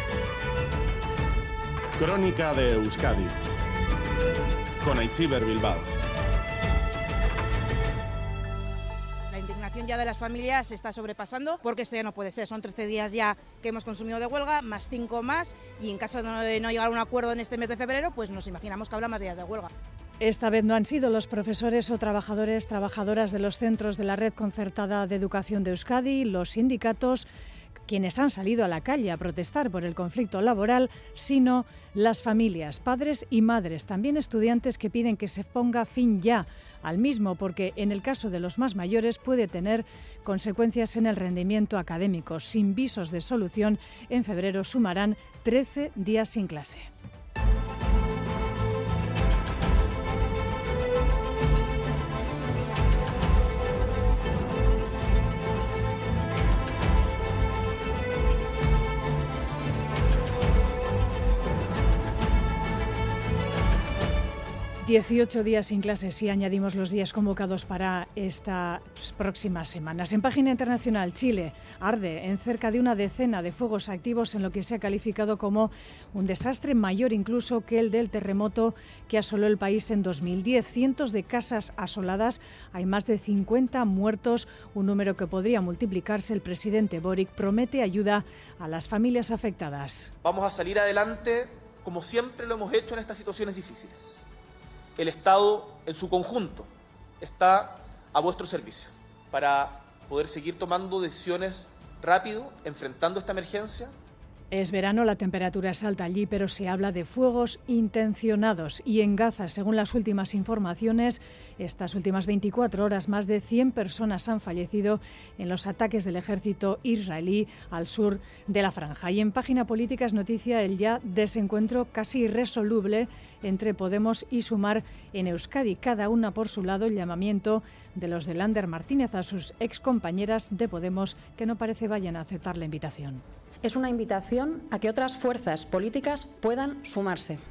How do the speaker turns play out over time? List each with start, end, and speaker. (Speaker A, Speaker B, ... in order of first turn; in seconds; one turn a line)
Speaker A: 2.0-3.3
Speaker A: 4.8-5.9
Speaker B: 9.3-19.7
Speaker C: 20.2-27.3
Speaker C: 27.9-46.9
Speaker C: 64.8-90.1
Speaker D: 90.2-94.1
Speaker D: 95.0-103.9
Speaker C: 104.5-133.2
Speaker E: 133.6-137.4